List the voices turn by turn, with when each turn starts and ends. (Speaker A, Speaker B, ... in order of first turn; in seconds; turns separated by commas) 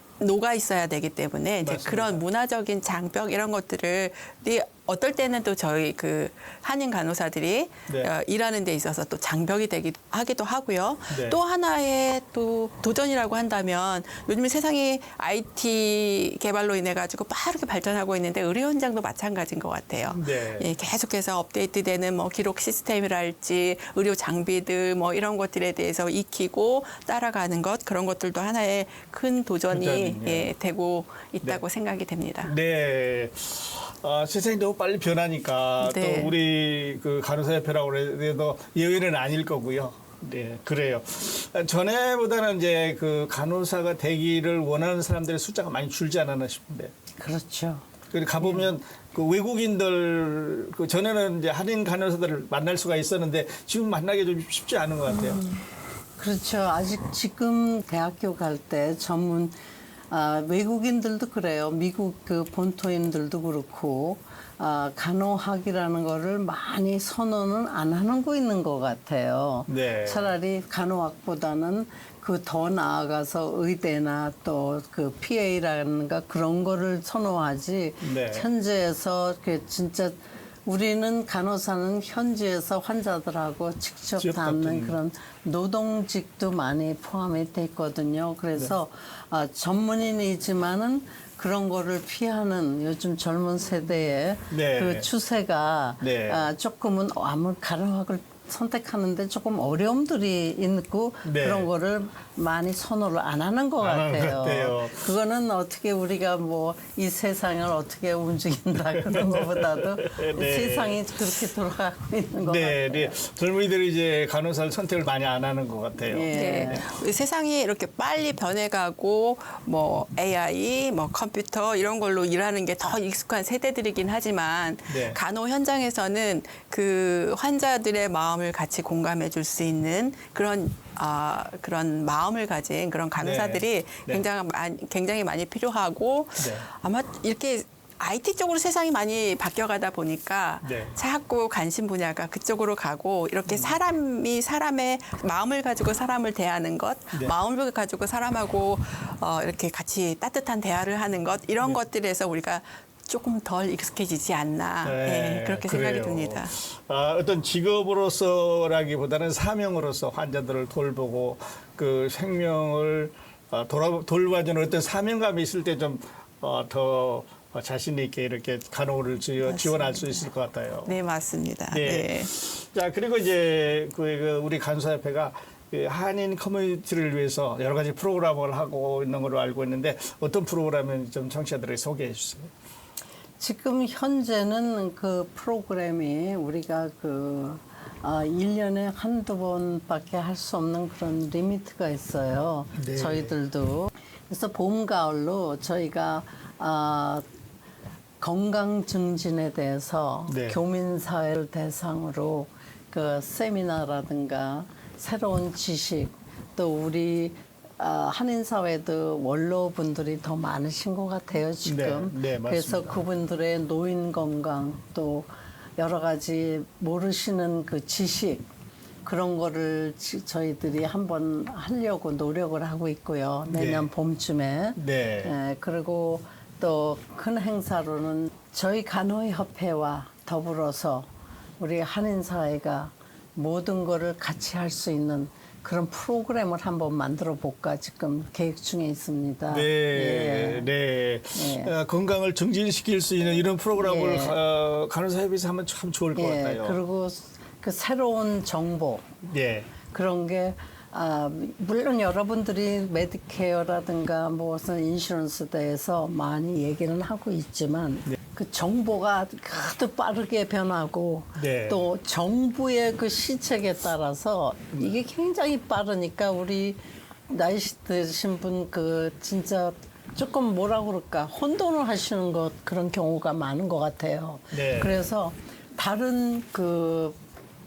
Speaker A: 0.2-32.5, Speaker B: 1.6-2.2, Speaker B: 11.1-11.4, Speaker B: 20.1-20.7, Speaker B: 29.7-30.5, Speaker B: 32.4-46.9, Speaker A: 35.8-36.3, Speaker C: 47.2-47.9, Speaker B: 48.1-55.4, Speaker C: 48.4-48.7, Speaker C: 56.2-59.5, Speaker C: 60.1-113.2, Speaker B: 69.7-70.3, Speaker B: 78.0-78.5, Speaker B: 84.2-85.0, Speaker B: 94.5-95.1, Speaker B: 96.0-96.5, Speaker B: 101.2-101.7, Speaker B: 103.8-105.1, Speaker B: 109.0-111.2, Speaker B: 112.4-116.8, Speaker C: 116.1-116.8, Speaker A: 116.3-156.6, Speaker B: 124.9-125.2, Speaker B: 133.2-134.2, Speaker B: 136.4-136.6, Speaker B: 140.6-141.0, Speaker B: 143.5-143.8, Speaker B: 154.8-170.9, Speaker A: 169.4-170.2, Speaker A: 170.8-172.3, Speaker B: 171.7-182.5, Speaker C: 183.4-197.2, Speaker B: 192.8-193.3, Speaker C: 198.2-218.4, Speaker B: 200.3-200.6, Speaker B: 211.6-213.0, Speaker C: 219.0-240.7, Speaker B: 223.5-223.9, Speaker B: 224.8-225.3, Speaker B: 239.5-246.8, Speaker C: 241.3-241.7, Speaker C: 243.7-244.3, Speaker C: 246.2-249.1, Speaker B: 249.2-249.7, Speaker C: 249.9-277.2, Speaker B: 261.4-261.8, Speaker B: 274.5-275.0